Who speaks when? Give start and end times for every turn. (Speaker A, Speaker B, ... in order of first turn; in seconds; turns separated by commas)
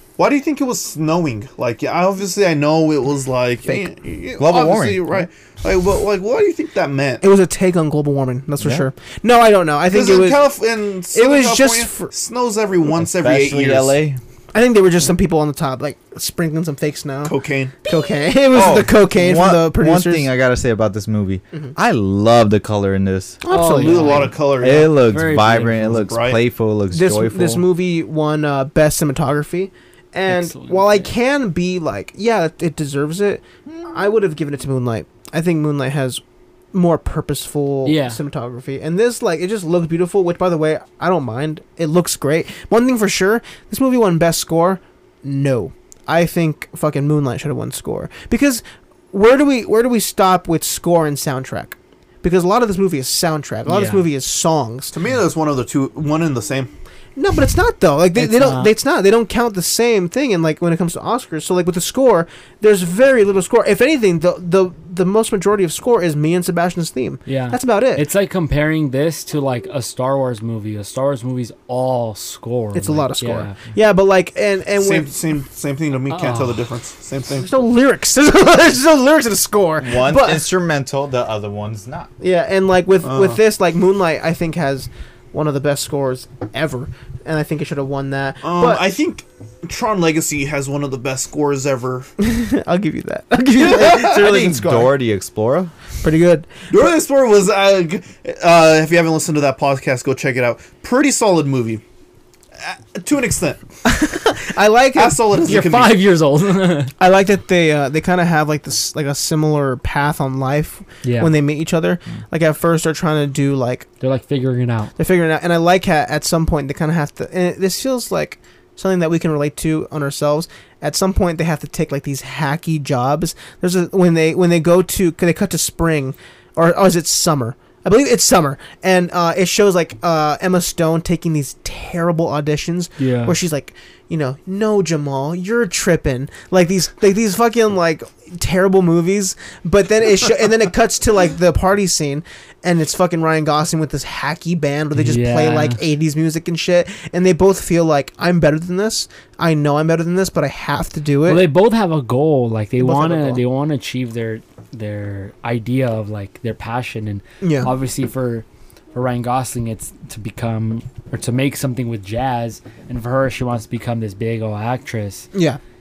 Speaker A: 0.2-7.2, Speaker B: 4.4-5.3, Speaker C: 7.2-10.5, Speaker B: 8.6-8.8, Speaker A: 9.9-14.0, Speaker C: 11.1-12.1, Speaker B: 12.9-14.2, Speaker C: 14.5-20.3, Speaker A: 17.2-17.8, Speaker B: 18.5-23.4, Speaker C: 23.4-24.3, Speaker D: 23.5-26.1, Speaker A: 23.7-24.9, Speaker B: 24.6-27.6, Speaker A: 26.1-26.4, Speaker C: 26.9-36.2, Speaker D: 30.3-31.1, Speaker C: 36.7-54.9, Speaker D: 37.9-38.2, Speaker D: 53.7-54.1, Speaker A: 54.9-56.7, Speaker C: 57.2-68.0, Speaker D: 58.2-58.7, Speaker D: 67.3-73.6, Speaker C: 72.7-75.1, Speaker A: 74.8-77.5, Speaker D: 76.1-76.7, Speaker C: 77.4-80.5, Speaker B: 79.8-82.1, Speaker C: 82.2-88.8, Speaker A: 83.0-83.4, Speaker A: 88.4-92.1, Speaker C: 92.2-94.9, Speaker A: 93.6-94.0, Speaker B: 93.7-95.7, Speaker C: 96.0-96.7, Speaker A: 96.7-101.8, Speaker A: 102.6-103.6, Speaker C: 103.8-105.5, Speaker A: 105.0-106.0, Speaker D: 105.4-106.9, Speaker C: 107.0-113.9, Speaker D: 111.0-111.3, Speaker D: 114.0-114.9, Speaker C: 115.0-151.5, Speaker D: 133.0-133.4, Speaker D: 144.9-145.8, Speaker D: 151.2-165.3, Speaker C: 152.8-153.4, Speaker C: 157.4-157.7, Speaker C: 165.3-165.6